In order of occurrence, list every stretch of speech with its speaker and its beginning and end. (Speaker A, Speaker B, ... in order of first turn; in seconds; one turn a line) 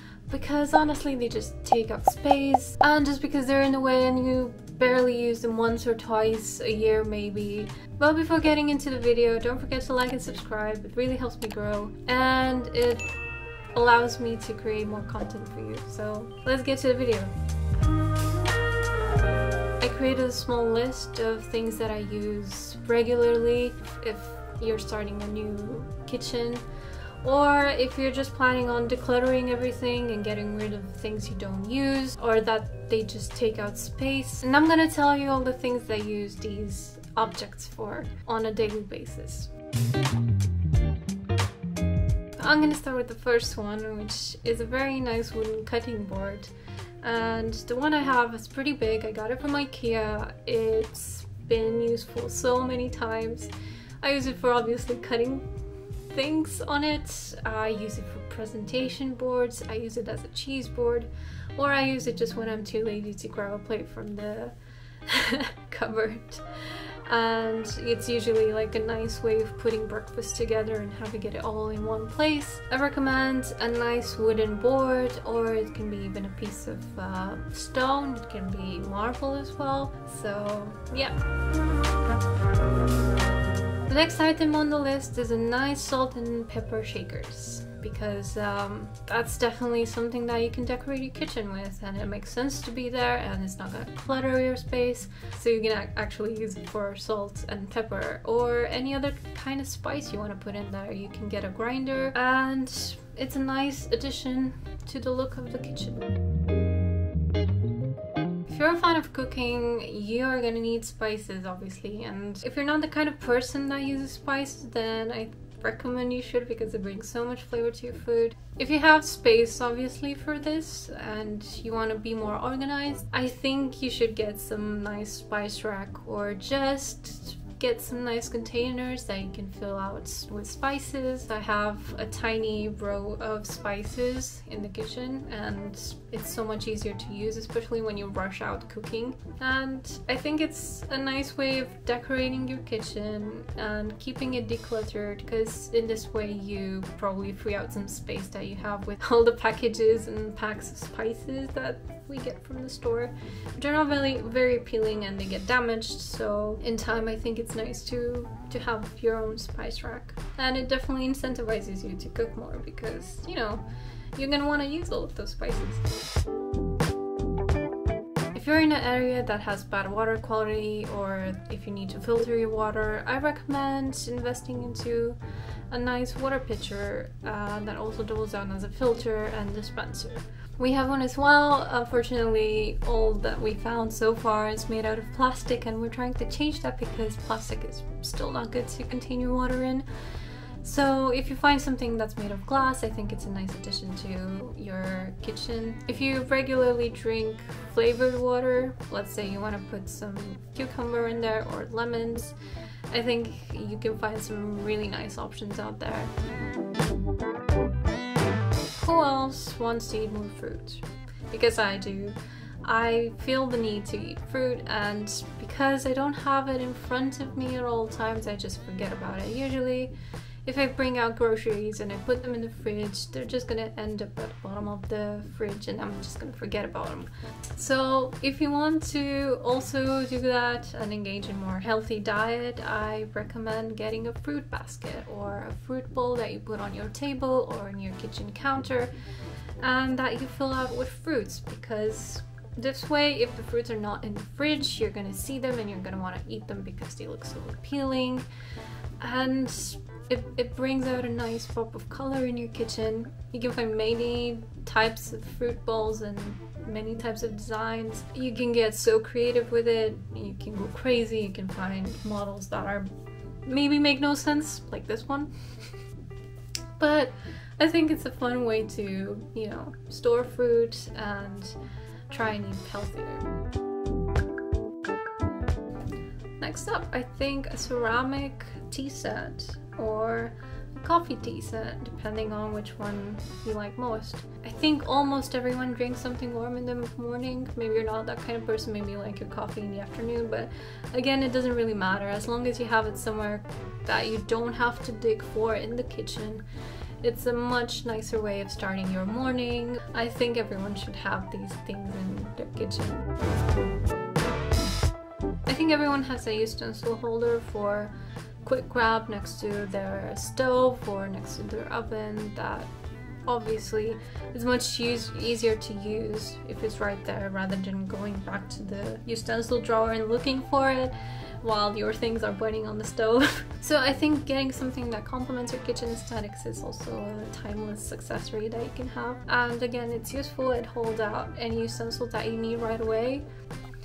Speaker A: 0.3-13.1
Speaker A: 13.7-17.3
Speaker A: 19.8-26.6
Speaker A: 27.2-39.5
Speaker A: 42.4-53.5
Speaker A: 54.0-55.5
Speaker A: 56.1-64.5
Speaker A: 65.1-66.5
Speaker A: 67.1-81.2
Speaker A: 83.9-106.0
Speaker A: 108.5-163.6
Speaker A: 164.2-166.0
Speaker A: 168.3-175.2
Speaker A: 175.7-189.9
Speaker A: 190.6-202.4
Speaker A: 202.9-206.1
Speaker A: 208.8-219.9
Speaker A: 220.4-238.9
Speaker A: 239.6-248.3
Speaker A: 249.0-262.9
Speaker A: 263.5-265.3
Speaker A: 266.8-271.6
Speaker A: 272.1-273.2
Speaker A: 276.4-296.4
Speaker A: 297.0-303.1
Speaker A: 305.5-312.7
Speaker A: 313.3-333.2